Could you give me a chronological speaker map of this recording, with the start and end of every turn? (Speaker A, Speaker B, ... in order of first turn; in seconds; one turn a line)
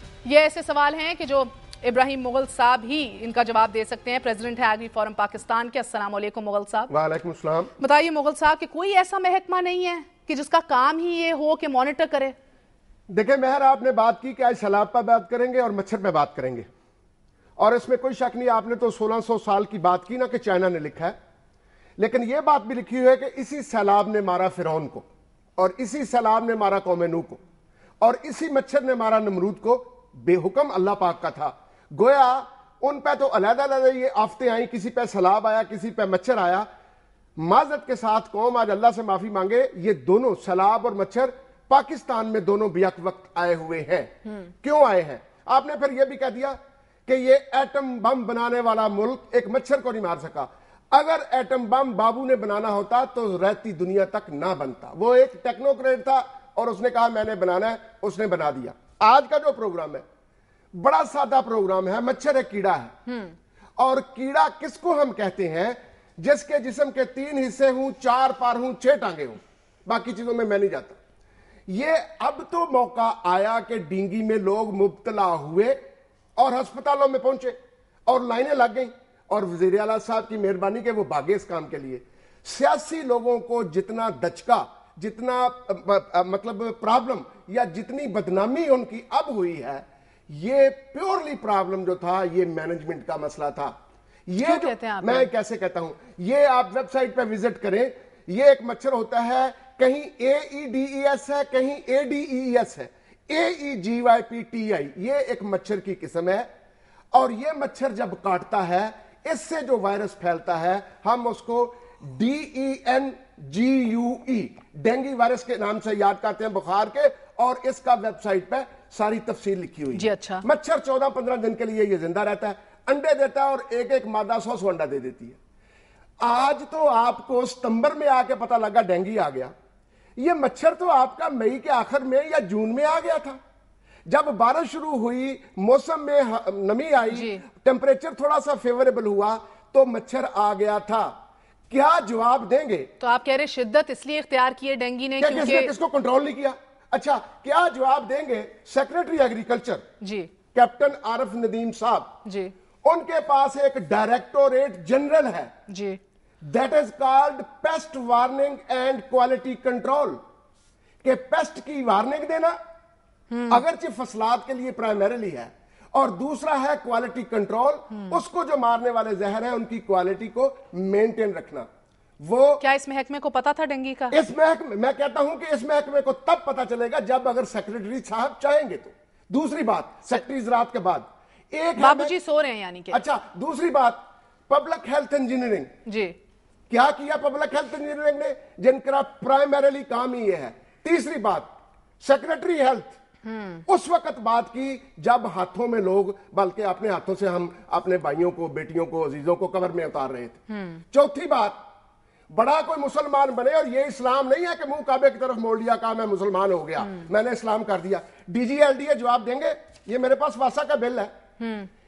Speaker A: 0.2-6.9
Speaker B: 6.9-7.7
Speaker A: 7.8-12.3
Speaker B: 13.1-16.6
Speaker B: 17.6-21.1
Speaker B: 22.0-27.4
Speaker B: 28.0-36.7
Speaker B: 37.4-60.0
Speaker B: 60.7-63.0
Speaker A: 63.1-63.3
Speaker B: 63.8-71.0
Speaker B: 71.7-75.8
Speaker B: 76.4-77.5
Speaker B: 78.1-93.7
Speaker B: 94.3-106.5
Speaker A: 94.4-95.3
Speaker B: 107.1-125.4
Speaker A: 119.9-120.4
Speaker B: 126.2-129.5
Speaker B: 130.2-133.4
Speaker B: 134.1-141.2
Speaker A: 137.1-137.4
Speaker B: 141.7-142.9
Speaker A: 143.0-145.7
Speaker B: 145.2-149.8
Speaker A: 150.0-150.3
Speaker B: 150.5-152.2
Speaker A: 152.2-152.5
Speaker B: 152.8-155.5
Speaker A: 155.7-156.0
Speaker B: 156.4-160.2
Speaker B: 161.0-162.6
Speaker A: 163.3-163.6
Speaker B: 163.5-171.7
Speaker B: 172.2-172.6
Speaker A: 172.6-174.2
Speaker B: 174.1-182.2
Speaker A: 181.8-183.0
Speaker B: 182.9-185.7
Speaker A: 185.8-186.1
Speaker B: 186.7-193.0
Speaker A: 193.2-193.6
Speaker B: 193.7-201.6
Speaker A: 200.5-200.8
Speaker B: 202.3-211.1
Speaker A: 211.4-211.7